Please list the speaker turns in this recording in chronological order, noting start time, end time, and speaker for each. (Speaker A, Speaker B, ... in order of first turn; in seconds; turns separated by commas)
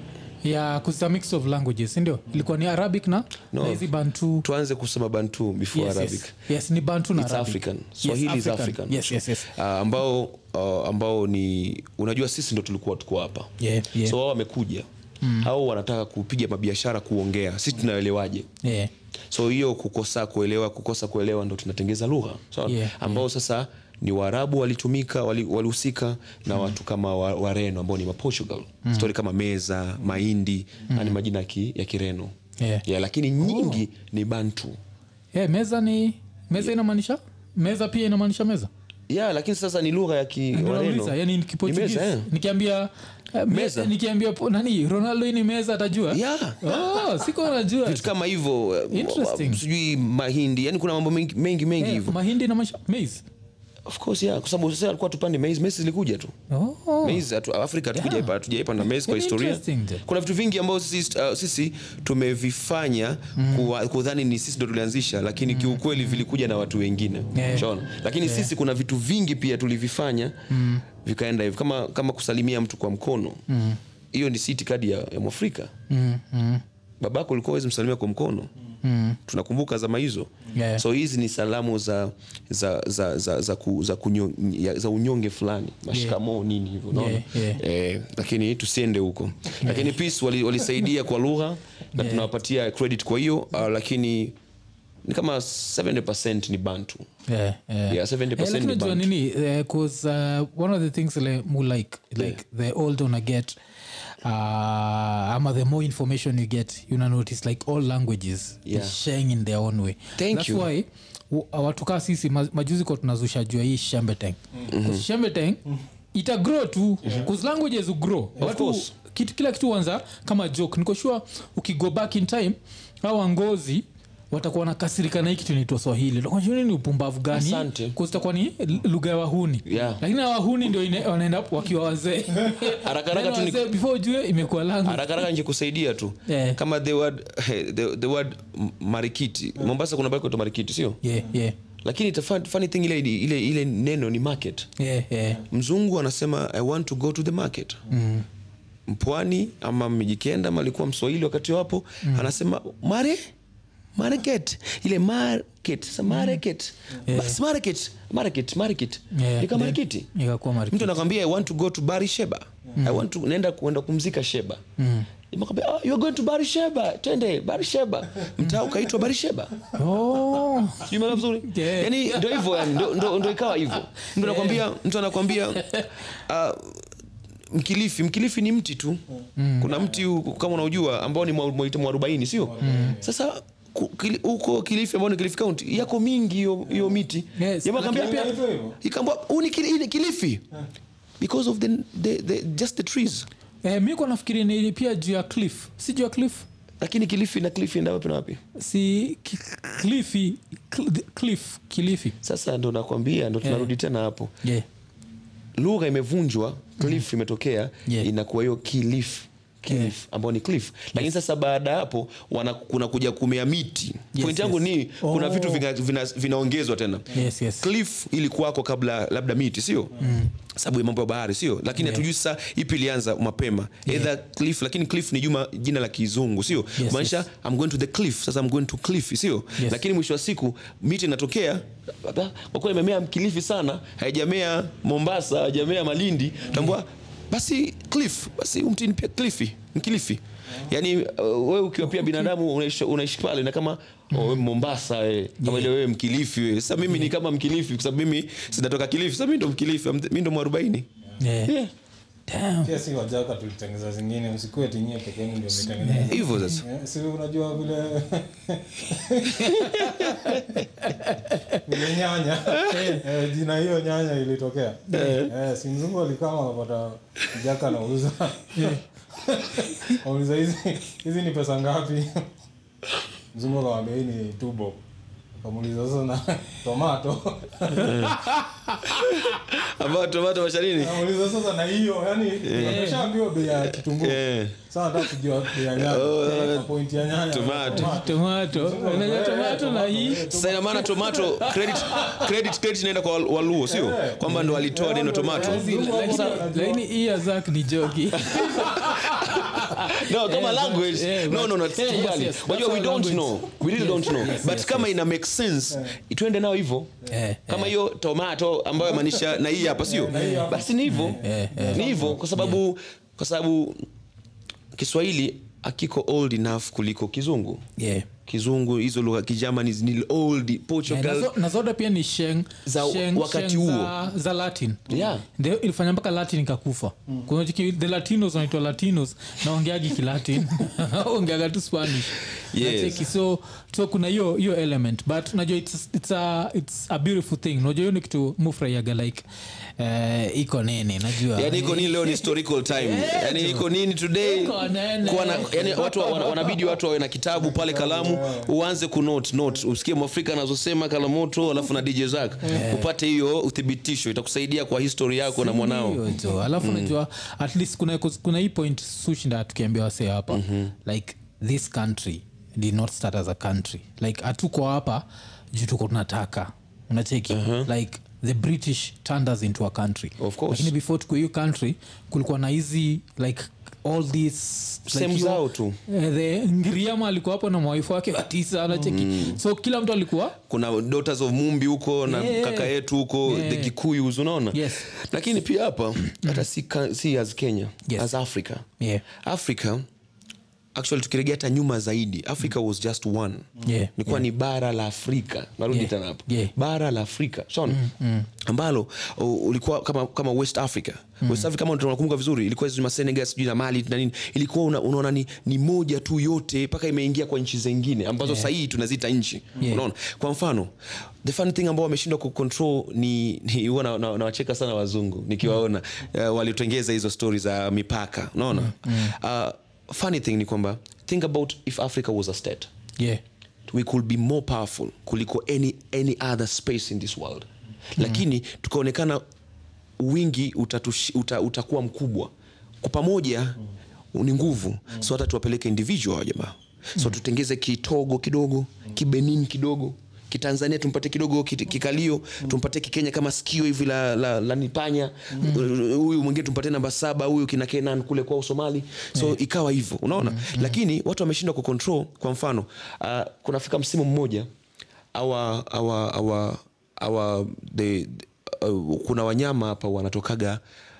Speaker A: 0.4-4.5, Speaker B: 3.5-3.9, Speaker B: 4.4-6.3, Speaker A: 5.7-9.5, Speaker B: 7.1-14.9, Speaker A: 13.6-14.2, Speaker A: 15.2-15.5, Speaker B: 15.4-18.5, Speaker A: 18.6-18.9, Speaker B: 19.3-32.3, Speaker A: 22.7-23.2, Speaker A: 28.8-29.1, Speaker A: 32.6-32.8, Speaker B: 32.8-34.8, Speaker A: 33.4-33.8, Speaker A: 35.3-38.7, Speaker B: 39.1-42.3, Speaker A: 40.5-48.1, Speaker B: 43.5-43.9, Speaker B: 46.1-47.1, Speaker B: 47.8-52.2, Speaker A: 48.9-49.6, Speaker A: 51.8-53.2, Speaker B: 53.9-56.3, Speaker A: 56.5-57.2, Speaker B: 57.0-73.4, Speaker A: 57.9-58.3, Speaker A: 58.9-60.0, Speaker A: 63.4-63.7, Speaker A: 65.5-65.8, Speaker A: 67.3-67.7, Speaker A: 68.2-68.5, Speaker A: 70.5-70.8, Speaker A: 73.5-73.8, Speaker B: 74.1-75.7, Speaker A: 75.9-76.6, Speaker B: 77.0-78.5, Speaker A: 78.8-79.2, Speaker B: 79.3-94.3, Speaker A: 80.5-80.8, Speaker A: 85.9-86.2, Speaker A: 86.9-87.6, Speaker A: 89.6-89.9, Speaker A: 92.0-92.3, Speaker B: 95.0-97.1, Speaker A: 97.3-103.5, Speaker B: 97.9-99.1, Speaker A: 104.2-115.6, Speaker B: 108.7-109.0, Speaker B: 110.2-110.7, Speaker B: 114.7-115.0, Speaker A: 116.1-135.3, Speaker B: 118.4-118.9, Speaker B: 127.3-128.0, Speaker B: 129.7-130.0, Speaker B: 132.6-133.7, Speaker B: 134.8-141.0, Speaker A: 136.2-136.6, Speaker A: 141.0-141.6, Speaker B: 141.8-144.7, Speaker A: 144.8-145.4, Speaker B: 145.5-147.8, Speaker A: 147.9-148.2, Speaker B: 148.9-153.2, Speaker A: 152.0-152.3, Speaker B: 153.9-160.1, Speaker A: 156.1-156.4, Speaker A: 157.1-157.4, Speaker A: 159.1-161.0, Speaker B: 160.7-164.6, Speaker A: 162.7-163.0, Speaker A: 164.8-165.1, Speaker B: 165.3-169.5, Speaker A: 169.7-173.3, Speaker B: 170.8-176.9, Speaker A: 174.0-174.7, Speaker A: 175.5-175.9, Speaker B: 177.5-179.0, Speaker A: 179.4-179.7, Speaker B: 179.6-190.4, Speaker C: 182.4-183.1, Speaker A: 182.6-183.0, Speaker A: 187.3-188.3, Speaker C: 187.8-188.8, Speaker B: 191.2-193.3, Speaker A: 193.6-196.4, Speaker B: 196.8-198.4, Speaker A: 198.5-202.2, Speaker B: 202.2-204.3, Speaker A: 203.4-203.7, Speaker B: 205.6-250.9, Speaker A: 214.1-215.6, Speaker A: 217.1-217.7, Speaker A: 220.0-220.3, Speaker A: 221.8-222.0, Speaker A: 223.8-224.1, Speaker A: 226.8-227.2, Speaker A: 244.1-244.4, Speaker A: 245.4-245.7, Speaker A: 251.2-251.6, Speaker B: 251.4-251.7, Speaker A: 252.3-252.7, Speaker C: 252.6-259.6, Speaker A: 255.8-256.6, Speaker B: 256.1-256.6, Speaker A: 259.4-261.6, Speaker B: 259.4-260.4, Speaker C: 260.1-260.6, Speaker C: 261.6-272.2, Speaker A: 262.7-263.0, Speaker A: 264.9-265.2, Speaker B: 264.9-265.3, Speaker A: 268.5-268.8, Speaker C: 273.3-274.8, Speaker C: 275.4-277.9, Speaker B: 277.7-278.2, Speaker A: 277.8-279.1, Speaker B: 278.8-281.0, Speaker C: 280.8-291.0, Speaker B: 282.4-282.9, Speaker A: 282.5-283.1, Speaker B: 283.4-284.6, Speaker B: 285.6-286.7, Speaker B: 287.3-288.0, Speaker A: 287.7-292.3, Speaker B: 290.3-296.4, Speaker C: 291.9-292.2, Speaker C: 293.6-296.9, Speaker A: 294.2-294.6, Speaker A: 295.3-304.9, Speaker B: 298.1-306.9, Speaker A: 307.1-307.7, Speaker B: 307.5-313.8, Speaker C: 309.6-312.2, Speaker A: 310.1-312.6, Speaker B: 314.7-317.6, Speaker A: 317.8-318.1, Speaker B: 318.3-321.3, Speaker A: 320.9-339.2, Speaker B: 322.6-323.9, Speaker B: 324.9-325.2, Speaker B: 332.5-333.1, Speaker A: 339.8-346.7, Speaker B: 341.2-356.9, Speaker C: 347.4-348.5, Speaker A: 352.4-352.9, Speaker A: 355.2-380.4, Speaker B: 360.3-360.7, Speaker B: 367.3-367.7, Speaker B: 370.2-370.7, Speaker B: 374.9-375.8, Speaker B: 378.8-379.4, Speaker B: 380.4-389.8, Speaker A: 382.1-383.7, Speaker A: 384.5-384.8, Speaker A: 386.0-386.4, Speaker A: 388.8-389.0, Speaker B: 390.7-397.8, Speaker A: 393.6-394.2, Speaker A: 395.7-396.5, Speaker A: 397.7-398.3, Speaker B: 398.4-422.7, Speaker A: 401.2-401.5, Speaker A: 408.2-408.5, Speaker A: 409.6-409.8, Speaker A: 418.5-419.1, Speaker B: 423.7-429.2, Speaker B: 430.0-433.6, Speaker B: 434.1-454.5, Speaker A: 450.2-450.7, Speaker B: 455.1-460.6